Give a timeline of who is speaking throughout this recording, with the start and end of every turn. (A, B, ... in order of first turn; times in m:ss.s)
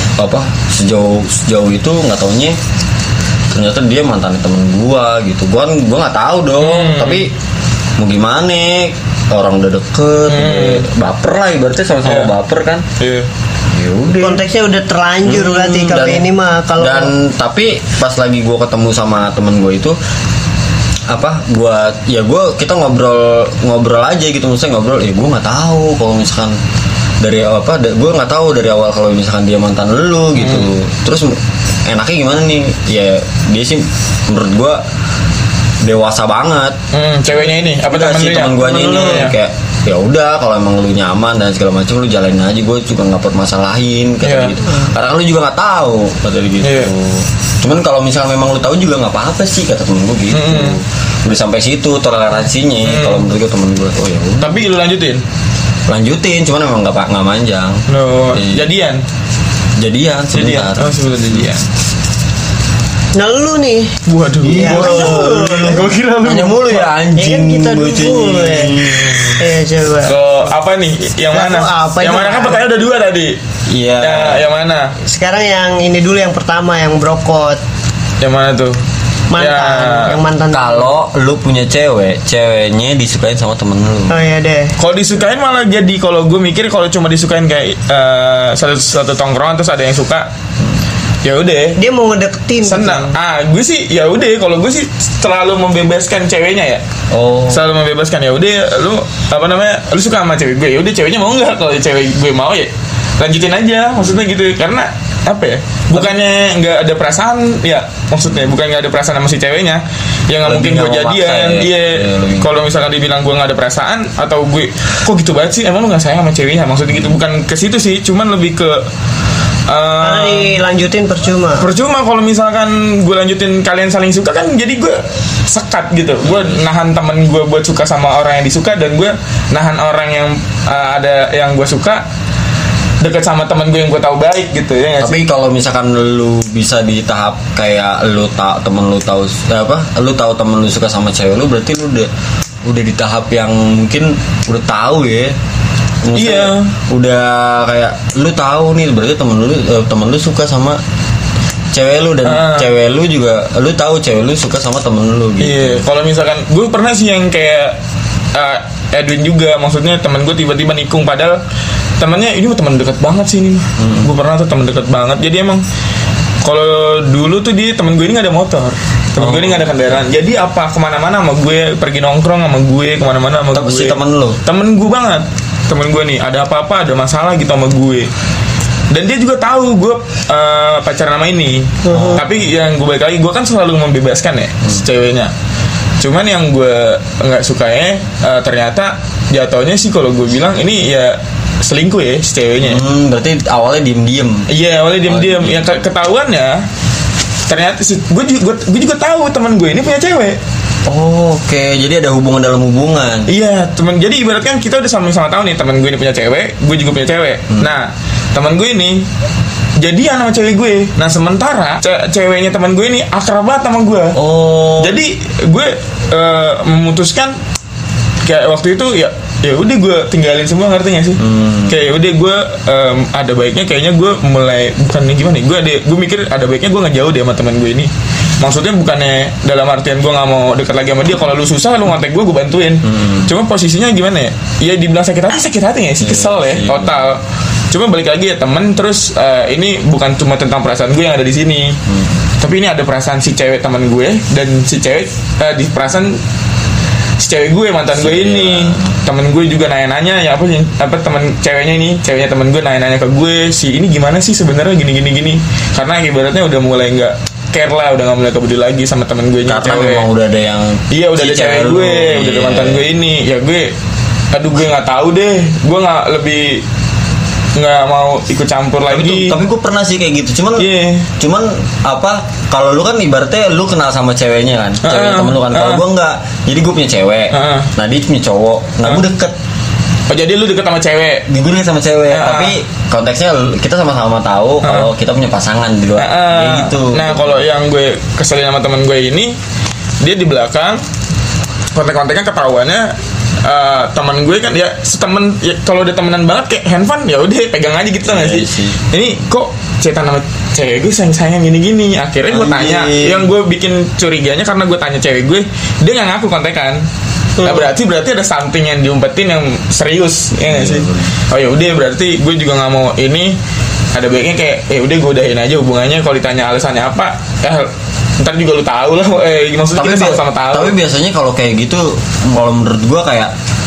0:00.2-0:02.6 A
0:03.5-0:07.3 A
0:06.6-0:07.3 B
0:08.0-0:12.8 A
0:10.3-0:10.8 B
0:12.0-0:12.3 B
0:13.0-0:13.3 B
0:13.7-0:14.4 A
0:14.2-0:17.1 C
0:15.2-0:16.2 A
0:16.8-0:20.0 A
0:21.1-0:26.6 A
0:27.2-0:34.8 A
0:30.4-0:30.7 B
0:35.8-0:36.8 A
0:36.9-0:39.3 B
0:37.3-0:54.6 A
0:38.6-0:39.3 C
0:44.2-0:44.5 B
0:46.6-0:46.9 B
0:50.3-0:50.8 B
0:52.8-0:53.2 B
0:54.4-0:55.2 B
0:55.9-0:58.7 A
0:57.9-0:59.0 B
0:59.8-1:01.5 A
1:00.3-1:01.6 B
1:03.1-1:05.8 C
1:04.1-1:06.9 B
1:04.4-1:09.5 A
1:07.2-1:10.2 C
1:10.0-1:13.4 B
1:11.3-1:12.6 C
1:13.7-1:14.4 A
1:14.0-1:14.9 B
1:15.0-1:17.6 C
1:18.2-1:18.8 B
1:19.3-1:21.0 C
1:19.4-1:20.2 B
1:20.5-1:24.1 A
1:24.1-1:24.7 C
1:24.8-1:30.3 B
1:31.2-1:31.8 B
1:31.8-1:33.1 C
1:32.6-1:36.8 B
1:37.1-1:37.6 A
1:37.5-1:58.8 B
1:50.4-1:52.5 A
1:59.7-2:00.6 B
2:00.0-2:01.7 C
2:01.6-2:12.0 B
2:06.2-2:06.6 A
2:13.0-2:15.2 B
2:15.0-2:22.1 A
2:22.6-2:25.4 A
2:26.0-2:30.8 A
2:26.1-2:26.7 B
2:31.7-2:35.8 A
2:32.2-2:32.7 B
2:35.4-2:37.8 B
2:38.3-2:41.4 B
2:42.0-2:45.6 B
2:43.8-2:44.1 A
2:46.4-2:58.1 B
2:49.2-2:50.0 A
2:53.5-2:54.4 A
2:58.9-3:05.3 B
3:01.8-3:02.2 C
3:01.9-3:02.2 A
3:06.0-3:12.8 B
3:12.6-3:14.5 A
3:14.5-3:16.6 B
3:15.0-3:15.7 A
3:17.5-3:20.4 B
3:20.8-3:23.3 A
3:23.3-3:29.1 B
3:29.8-3:34.2 B
3:34.1-3:35.0 A
3:34.8-3:37.4 B
3:38.2-4:01.8 B
3:41.2-3:41.8 A
3:52.8-3:53.3 A
3:56.0-3:57.0 A
4:01.8-4:02.2 A
4:02.4-4:06.2 B
4:07.2-4:20.1 B
4:07.9-4:09.0 A
4:19.5-4:22.9 A
4:20.9-4:23.7 B
4:24.3-4:26.6 B
4:27.5-4:29.4 B
4:28.9-4:39.4 A
4:30.6-4:31.1 B
4:34.8-4:35.8 B
4:37.3-4:37.7 B
4:40.1-4:41.2 B
4:41.3-4:47.4 A
4:42.1-4:42.5 B
4:44.6-4:44.9 B
4:46.0-4:49.4 B
4:50.0-4:50.8 B
4:51.7-5:06.8 B
4:58.0-4:58.8 A
5:02.3-5:03.3 A
5:07.4-5:13.4 B
5:10.4-5:11.1 A
5:13.9-5:20.7 B
5:19.7-5:23.3 A